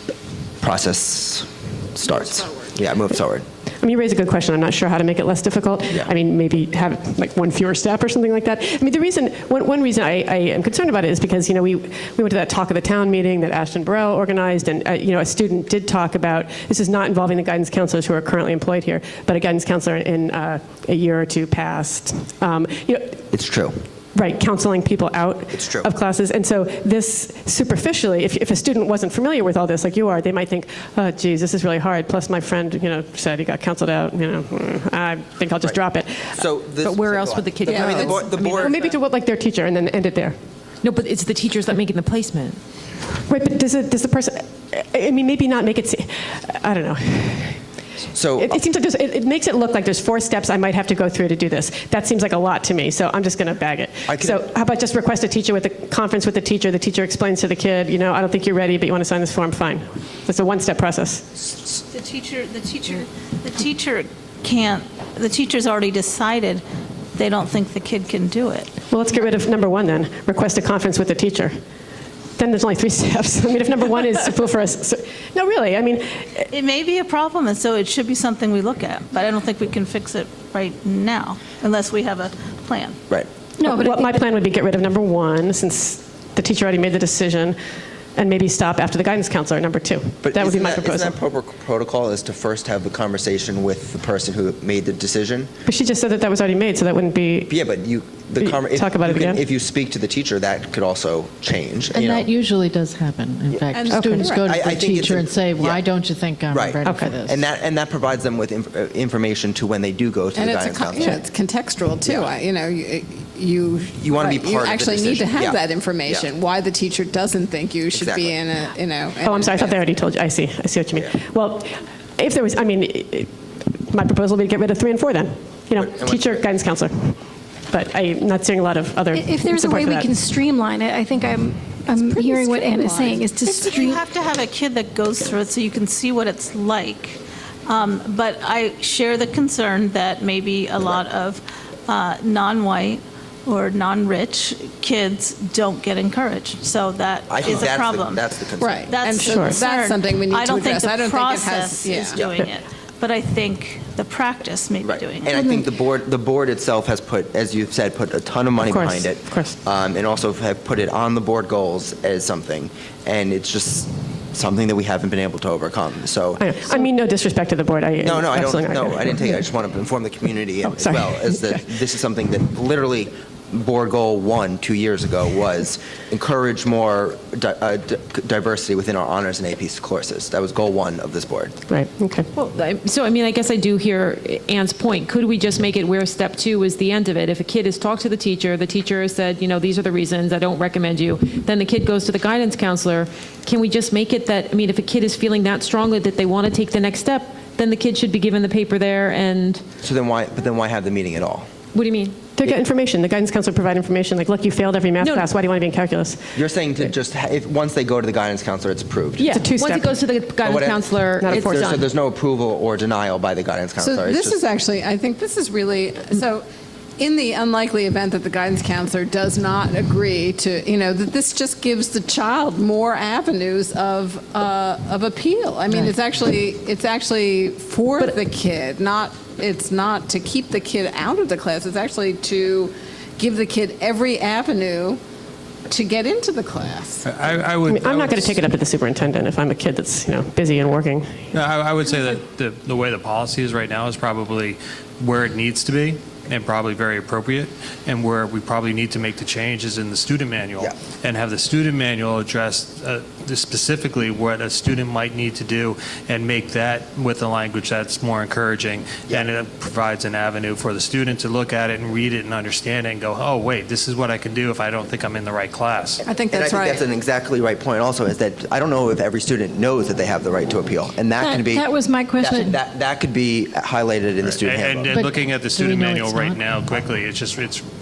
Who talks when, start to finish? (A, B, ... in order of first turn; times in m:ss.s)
0:00.6-0:03.4 A
0:03.8-0:23.2 B
0:23.3-0:23.8 A
0:24.1-0:36.4 B
0:25.5-0:25.9 A
0:36.3-0:38.8 A
0:36.8-0:38.8 C
0:37.9-0:40.4 B
0:40.8-0:42.6 C
0:43.3-0:47.6 B
0:48.1-0:48.6 A
0:48.4-1:01.5 B
0:54.1-0:54.4 A
1:01.9-1:08.7 D
1:08.9-1:11.6 B
1:12.4-1:16.5 B
1:16.5-1:23.0 D
1:23.6-1:24.1 E
1:23.6-1:27.6 B
1:28.1-1:31.2 B
1:30.2-1:35.5 A
1:35.7-1:37.5 B
1:37.5-1:42.3 A
1:38.4-1:39.4 B
1:41.9-1:47.4 F
1:43.5-1:45.8 A
1:43.7-1:44.6 G
1:43.9-1:44.3 B
1:46.5-1:51.2 A
1:46.8-1:47.2 B
1:50.3-1:59.7 G
1:54.0-1:56.3 A
1:57.9-1:58.3 A
1:59.2-2:03.3 B
2:03.9-2:07.2 B
2:05.8-2:06.4 A
2:07.7-2:10.1 B
2:09.1-2:14.0 E
2:11.9-2:13.7 G
2:13.6-2:28.3 D
2:27.3-2:28.9 A
2:28.6-2:32.2 G
2:28.8-2:35.5 D
2:29.2-2:29.6 B
2:34.8-2:46.9 A
2:38.6-2:39.6 B
2:46.4-2:49.4 B
2:48.0-3:01.6 A
2:50.6-2:51.6 B
3:01.7-3:02.3 B
3:02.3-3:19.6 C
3:19.8-3:21.5 A
3:21.7-3:22.3 C
3:22.4-3:26.4 B
3:25.0-3:25.3 C
3:26.3-3:29.4 A
3:29.2-3:30.0 B
3:29.2-3:31.8 C
3:30.4-3:34.4 A
3:31.2-3:31.8 B
3:33.8-3:36.4 G
3:37.0-3:55.0 G
3:55.7-3:57.1 G
3:57.0-3:58.4 H
3:57.6-4:01.2 B
4:01.3-4:26.0 H
4:26.0-4:26.8 G
4:26.3-4:34.9 A
4:31.2-4:32.6 E
4:34.2-4:37.6 H
4:34.9-4:36.4 F